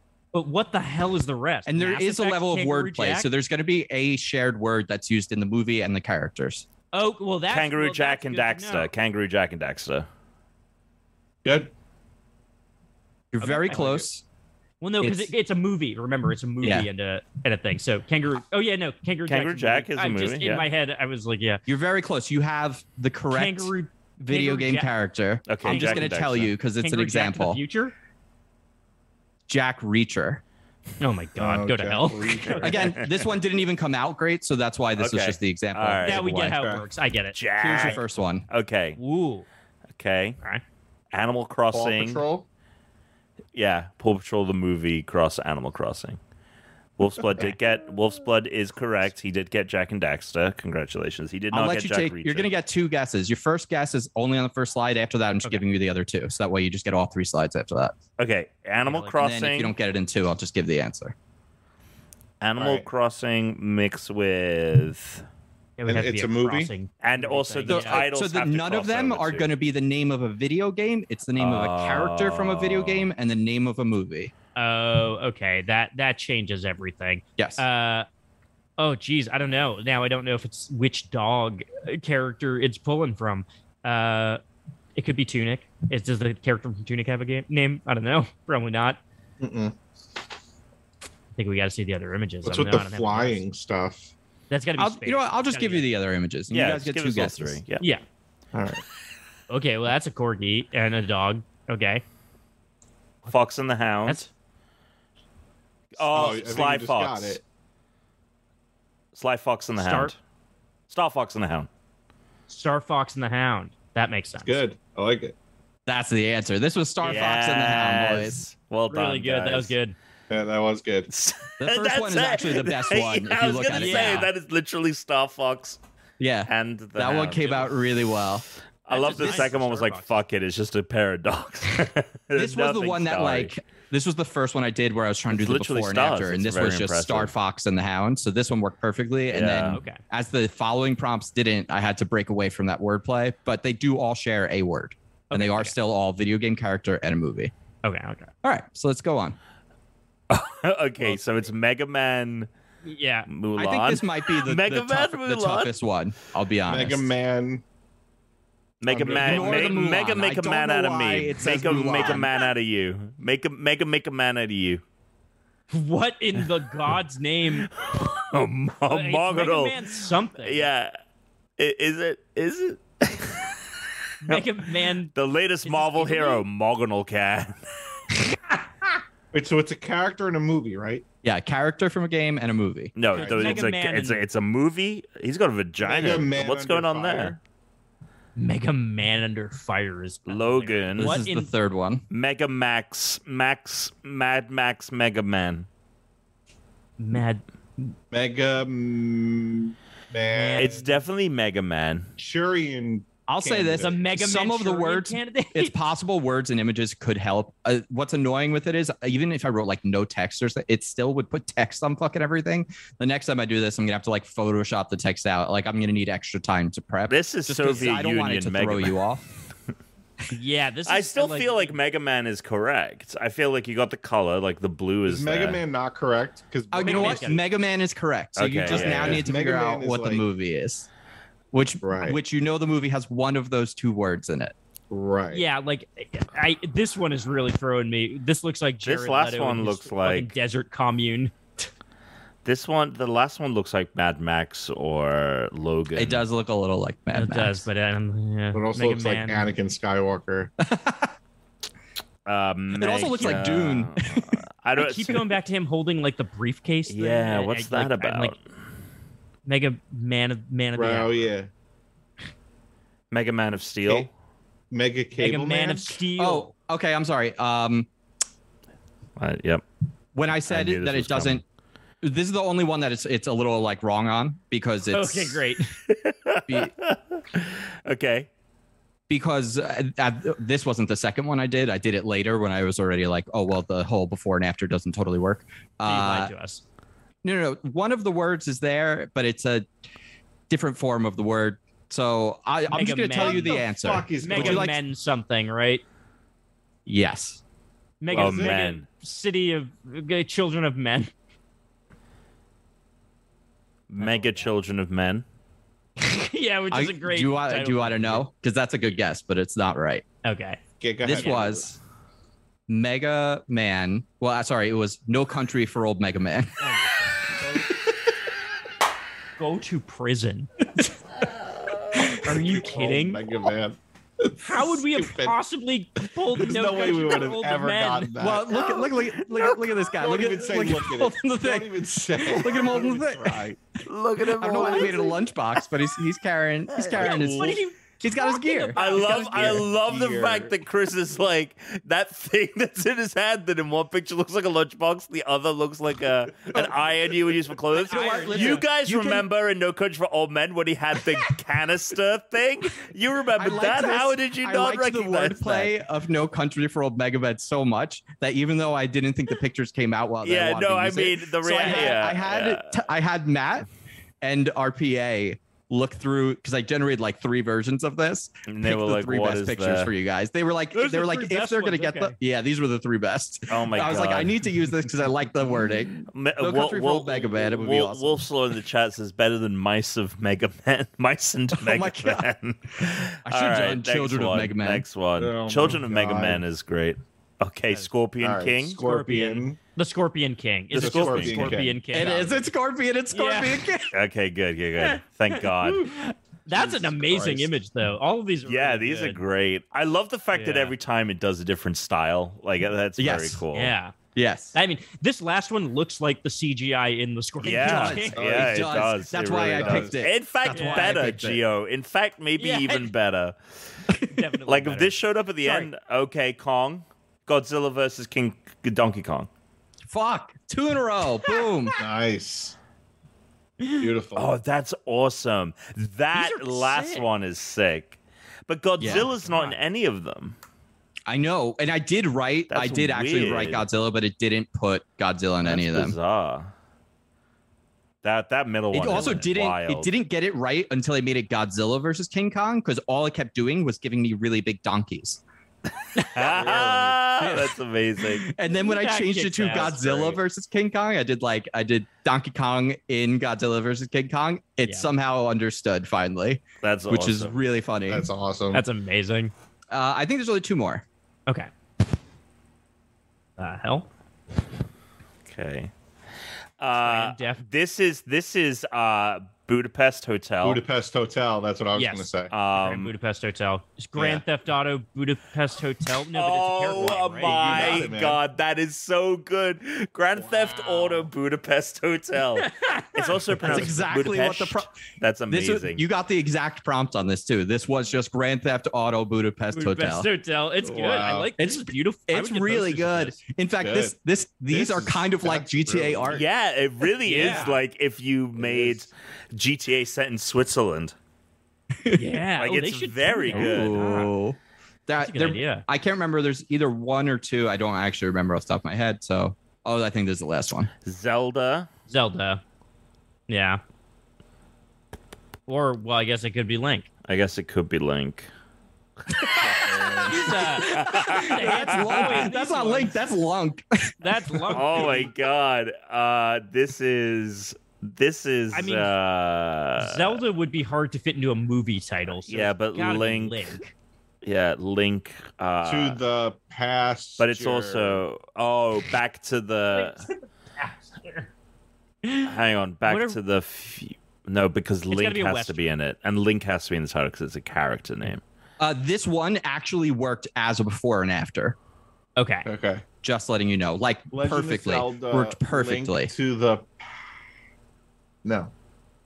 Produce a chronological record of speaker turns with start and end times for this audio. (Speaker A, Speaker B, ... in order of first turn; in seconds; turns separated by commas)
Speaker A: 0.3-3.3, Speaker B: 1.6-6.6, Speaker A: 6.9-8.9, Speaker C: 7.5-10.1, Speaker D: 11.4-11.7, Speaker B: 13.3-14.2, Speaker A: 13.4-14.0, Speaker A: 14.8-21.6, Speaker B: 15.0-15.3, Speaker B: 16.6-16.9, Speaker C: 19.3-20.6, Speaker B: 21.7-27.6, Speaker A: 23.3-24.9, Speaker C: 25.5-26.5, Speaker A: 25.6-26.2, Speaker A: 26.7-27.9, Speaker B: 29.5-30.4, Speaker A: 31.0-32.9, Speaker D: 31.4-33.0, Speaker B: 32.6-36.6, Speaker C: 35.0-36.3, Speaker A: 36.0-37.4, Speaker D: 36.4-36.8, Speaker C: 37.3-39.0, Speaker B: 37.6-38.5, Speaker A: 39.0-39.5, Speaker C: 40.0-40.4, Speaker C: 41.1-42.2, Speaker D: 41.7-42.5, Speaker C: 43.5-46.2, Speaker C: 47.0-52.5, Speaker B: 51.5-57.9, Speaker C: 58.2-59.7, Speaker A: 58.9-59.1, Speaker B: 59.2-61.1, Speaker C: 62.4-65.2, Speaker D: 62.6-62.8, Speaker A: 65.8-68.1, Speaker D: 65.9-66.7, Speaker C: 67.0-69.5, Speaker B: 67.7-74.3, Speaker C: 71.4-73.1, Speaker A: 74.5-78.1, Speaker B: 77.4-77.6, Speaker A: 78.8-84.4, Speaker A: 85.0-89.0, Speaker D: 89.4-89.8, Speaker A: 91.3-93.4, Speaker D: 92.4-94.1, Speaker A: 94.5-95.9, Speaker B: 94.8-97.6, Speaker C: 96.5-97.8, Speaker D: 98.5-98.8, Speaker A: 99.5-102.0, Speaker C: 103.2-104.2, Speaker C: 105.9-107.4, Speaker D: 106.0-107.4, Speaker C: 109.1-110.2, Speaker A: 109.8-110.1, Speaker C: 110.9-111.7, Speaker A: 112.5-114.6, Speaker D: 114.4-115.3, Speaker B: 115.8-118.4, Speaker C: 117.0-119.7, Speaker A: 118.9-119.9, Speaker D: 120.3-121.1, Speaker C: 121.1-125.8, Speaker B: 121.6-124.3, Speaker A: 123.7-124.3, Speaker B: 126.2-128.4, Speaker C: 126.5-127.8, Speaker C: 128.8-133.5, Speaker A: 128.9-130.2, Speaker B: 129.1-129.5, Speaker B: 132.3-147.5, Speaker C: 135.3-137.3, Speaker C: 139.3-139.8, Speaker A: 139.6-140.0, Speaker A: 145.3-145.7, Speaker A: 147.8-148.3, Speaker B: 148.4-149.4, Speaker C: 150.3-152.5, Speaker A: 152.8-153.3, Speaker C: 153.3-155.7, Speaker B: 153.6-157.1, Speaker D: 156.7-157.6, Speaker C: 158.8-164.8, Speaker D: 158.8-159.8, Speaker B: 159.1-162.3, Speaker A: 165.7-167.7, Speaker C: 167.7-169.9, Speaker A: 168.9-170.7, Speaker C: 170.4-170.9, Speaker C: 171.6-173.6, Speaker A: 174.2-175.1, Speaker C: 175.1-177.6, Speaker A: 175.6-176.4, Speaker D: 179.3-181.0, Speaker B: 181.2-182.9, Speaker C: 182.9-187.3, Speaker A: 183.1-184.2, Speaker D: 183.2-183.7, Speaker D: 185.8-187.4, Speaker A: 188.3-191.5, Speaker C: 190.3-191.2, Speaker B: 191.0-192.0, Speaker C: 192.1-195.7, Speaker A: 197.0-197.9, Speaker D: 198.1-200.8, Speaker A: 200.3-201.0, Speaker C: 200.5-202.1, Speaker D: 202.2-203.9, Speaker B: 203.3-219.2, Speaker A: 203.8-205.7, Speaker C: 217.1-218.9, Speaker A: 220.3-221.7, Speaker C: 220.8-225.6, Speaker D: 225.1-227.4, Speaker B: 226.7-230.9, Speaker A: 226.8-227.4, Speaker C: 228.3-229.3, Speaker D: 228.7-230.2, Speaker B: 231.5-234.5, Speaker D: 231.8-232.2, Speaker D: 234.9-235.4, Speaker A: 235.3-241.3, Speaker C: 238.8-240.3, Speaker C: 242.4-246.2, Speaker B: 245.9-247.7, Speaker A: 247.1-249.5, Speaker D: 248.5-250.5, Speaker B: 250.6-251.1, Speaker C: 252.2-255.3, Speaker B: 252.7-254.4, Speaker A: 253.1-253.5, Speaker A: 254.8-258.3, Speaker C: 256.9-258.4, Speaker A: 259.4-261.3, Speaker D: 260.7-261.5, Speaker C: 263.1-264.1, Speaker D: 264.7-266.0, Speaker A: 265.2-266.5, Speaker B: 266.2-267.9, Speaker C: 269.2-269.6, Speaker B: 270.1-271.4, Speaker C: 270.4-271.4, Speaker B: 272.0-275.4, Speaker A: 274.9-275.7, Speaker C: 275.9-278.3, Speaker B: 279.1-286.3, Speaker A: 285.8-286.6, Speaker B: 287.2-289.7, Speaker B: 290.5-294.8, Speaker A: 292.7-295.8, Speaker D: 293.1-294.7, Speaker B: 296.9-297.4, Speaker A: 298.0-301.1, Speaker D: 298.1-298.6, Speaker C: 298.1-298.8, Speaker C: 303.9-305.2, Speaker A: 304.0-304.5, Speaker A: 306.0-308.2, Speaker B: 306.7-310.0, Speaker A: 310.2-311.5, Speaker D: 310.8-311.6, Speaker B: 311.0-311.8, Speaker B: 312.7-316.7, Speaker A: 316.6-317.4, Speaker A: 319.4-320.6, Speaker A: 321.9-323.2, Speaker D: 322.5-325.4, Speaker A: 324.4-328.1, Speaker D: 326.4-328.8, Speaker B: 328.2-333.5, Speaker D: 329.8-333.6, Speaker C: 333.8-335.2, Speaker B: 334.2-338.8, Speaker A: 334.6-334.8, Speaker C: 336.8-337.4, Speaker A: 336.8-339.7, Speaker C: 338.7-355.7, Speaker D: 338.9-340.5, Speaker A: 347.7-348.6, Speaker B: 347.9-349.3, Speaker B: 353.4-363.6, Speaker C: 360.2-362.8, Speaker A: 361.6-361.9, Speaker B: 364.2-378.2, Speaker C: 368.5-369.9, Speaker A: 370.7-372.1, Speaker C: 373.5-374.4, Speaker C: 376.1-388.8, Speaker B: 381.5-382.3, Speaker B: 382.9-384.9, Speaker D: 385.2-386.4, Speaker D: 388.2-389.6, Speaker A: 388.8-392.4, Speaker C: 390.7-391.6, Speaker D: 390.7-392.0, Speaker B: 391.9-393.9, Speaker A: 393.1-393.7, Speaker C: 393.9-395.9, Speaker A: 394.8-399.2, Speaker D: 396.5-397.5, Speaker C: 398.4-403.7, Speaker A: 400.3-400.7, Speaker B: 403.0-403.4, Speaker A: 403.5-403.9, Speaker B: 404.1-404.6, Speaker A: 404.5-408.1, Speaker B: 407.4-411.4, Speaker C: 407.4-413.4, Speaker D: 408.1-408.7, Speaker D: 409.3-410.0, Speaker A: 410.5-411.0, Speaker A: 412.4-412.9, Speaker B: 413.9-414.2, Speaker A: 414.0-415.7, Speaker C: 414.4-419.3, Speaker B: 419.9-421.8, Speaker D: 421.8-422.6, Speaker A: 423.6-423.9, Speaker D: 423.7-424.3, Speaker C: 424.1-428.0, Speaker A: 426.1-427.1, Speaker C: 428.5-430.4, Speaker B: 428.8-429.1, Speaker A: 428.8-429.6, Speaker B: 431.1-435.9, Speaker C: 432.5-433.7, Speaker C: 435.4-436.5, Speaker C: 438.0-439.9, Speaker B: 438.7-445.2, Speaker C: 446.0-448.3, Speaker D: 446.1-447.0, Speaker B: 447.2-458.0, Speaker A: 448.5-449.8, Speaker D: 449.6-450.2, Speaker C: 456.6-457.4, Speaker D: 457.9-458.6, Speaker A: 458.5-459.3, Speaker B: 459.7-460.8, Speaker A: 463.4-463.9, Speaker C: 465.3-465.7, Speaker C: 466.6-470.6, Speaker A: 466.8-467.4, Speaker D: 470.4-472.3, Speaker A: 471.7-477.9, Speaker C: 472.3-472.9, Speaker D: 473.9-474.2, Speaker C: 476.1-485.8, Speaker D: 476.7-478.2, Speaker D: 480.1-481.1, Speaker A: 482.3-483.7, Speaker B: 483.4-484.7, Speaker B: 485.3-490.1, Speaker A: 489.5-493.2, Speaker D: 490.6-491.3, Speaker B: 491.4-496.2, Speaker D: 493.6-493.9, Speaker D: 494.5-496.2, Speaker C: 496.1-500.9, Speaker A: 497.0-497.6, Speaker D: 498.4-498.8, Speaker A: 501.9-504.1, Speaker C: 502.4-503.8, Speaker B: 503.3-510.7, Speaker A: 504.9-505.6, Speaker C: 510.8-511.7, Speaker A: 511.9-512.4, Speaker A: 513.3-513.6, Speaker A: 515.5-516.9, Speaker C: 517.1-518.3, Speaker B: 519.1-524.6, Speaker D: 519.3-520.4, Speaker A: 520.0-523.0, Speaker C: 520.5-522.2, Speaker A: 524.0-525.1, Speaker C: 524.5-530.2, Speaker A: 528.5-528.9, Speaker A: 529.8-533.7, Speaker C: 532.3-533.4, Speaker C: 534.2-536.0, Speaker D: 535.6-538.0, Speaker C: 537.2-540.0, Speaker A: 539.7-541.3, Speaker A: 542.0-542.3, Speaker C: 542.2-548.2, Speaker A: 542.9-543.2, Speaker A: 544.9-545.6, Speaker B: 548.6-551.5, Speaker A: 552.1-552.5, Speaker D: 552.5-552.8, Speaker B: 553.0-556.1, Speaker D: 554.1-556.8, Speaker D: 558.2-558.5